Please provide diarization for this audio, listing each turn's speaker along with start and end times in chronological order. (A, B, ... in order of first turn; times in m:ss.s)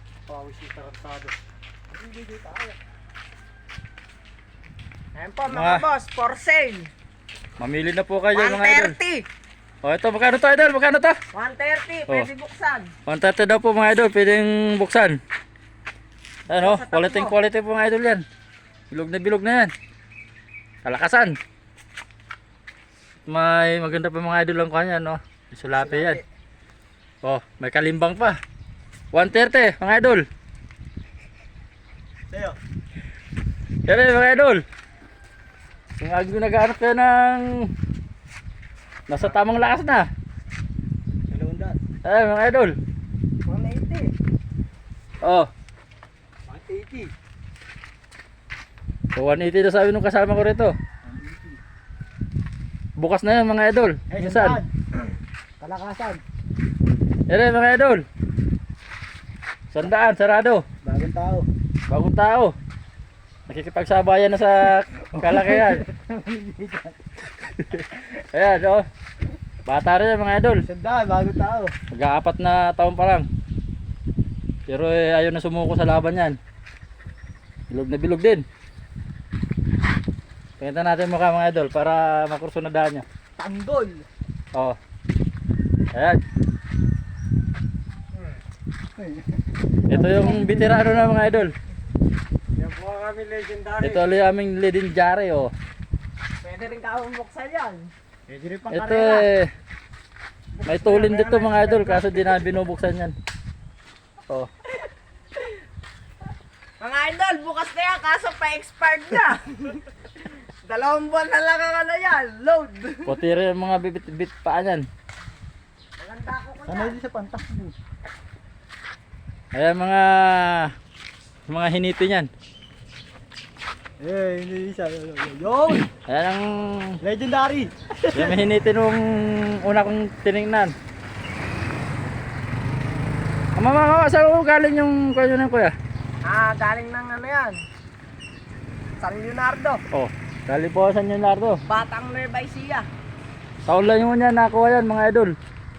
0:00.3-0:01.3 A
0:01.9-0:02.8 A
0:05.2-0:06.9 B
0:05.5-0:05.9 C
0:07.6-0:09.0 C
0:08.3-0:09.2 B
0:09.8-0:11.2 C
0:11.3-0:12.9 B
0:13.1-0:15.2 C
0:16.5-0:17.4 B
0:16.5-0:18.2 C
0:18.9-0:19.7 C
0:20.8-0:21.4 C
0:23.3-0:26.2 C
0:25.8-0:26.2 A
0:27.2-0:28.4 C
0:29.1-0:30.3 C
0:32.3-0:32.6 A
0:33.9-0:34.6 C
0:36.0-0:37.7 C
0:39.1-0:40.1 C
0:41.3-0:41.8 A
0:42.0-0:42.8 C
0:43.5-0:44.1 B
0:45.2-0:45.5 C
0:46.5-0:47.1 A
0:49.1-0:50.8 C
0:51.0-0:51.6 A
0:53.0-0:54.6 C
0:54.1-0:54.7 A
0:55.6-0:56.2 A
0:57.3-0:58.1 C
0:59.7-1:00.6 C
1:00.8-1:01.5 A
1:01.9-1:02.6 C
1:03.5-1:05.8 C
1:05.2-1:07.0 A
1:07.4-1:08.9 C
1:09.7-1:10.6 C
1:10.6-1:11.7 A
1:11.9-1:13.3 C
1:14.7-1:16.4 C
1:17.7-1:18.4 C
1:20.6-1:23.0 C
1:23.4-1:24.1 A
1:25.9-1:26.2 C
1:29.0-1:31.0 A
1:29.9-1:31.5 C
1:32.6-1:33.9 A
1:33.8-1:35.5 C
1:36.4-1:37.9 B
1:38.3-1:39.2 A
1:38.7-1:39.5 C
1:40.6-1:41.1 A
1:40.6-1:43.2 C
1:40.9-1:42.5 B
1:46.8-1:49.8 B
1:50.4-1:53.2 B
1:53.0-1:54.9 C
1:56.0-1:57.0 B
1:56.6-1:57.8 A
1:59.5-2:00.7 C
2:01.5-2:02.3 C
2:04.0-2:05.9 A
2:05.9-2:07.0 C
2:07.0-2:08.4 A
2:08.1-2:10.7 C
2:13.6-2:15.8 C
2:16.2-2:17.6 B
2:19.0-2:19.8 B
2:19.9-2:21.6 C
2:21.7-2:22.9 B
2:23.7-2:25.4 C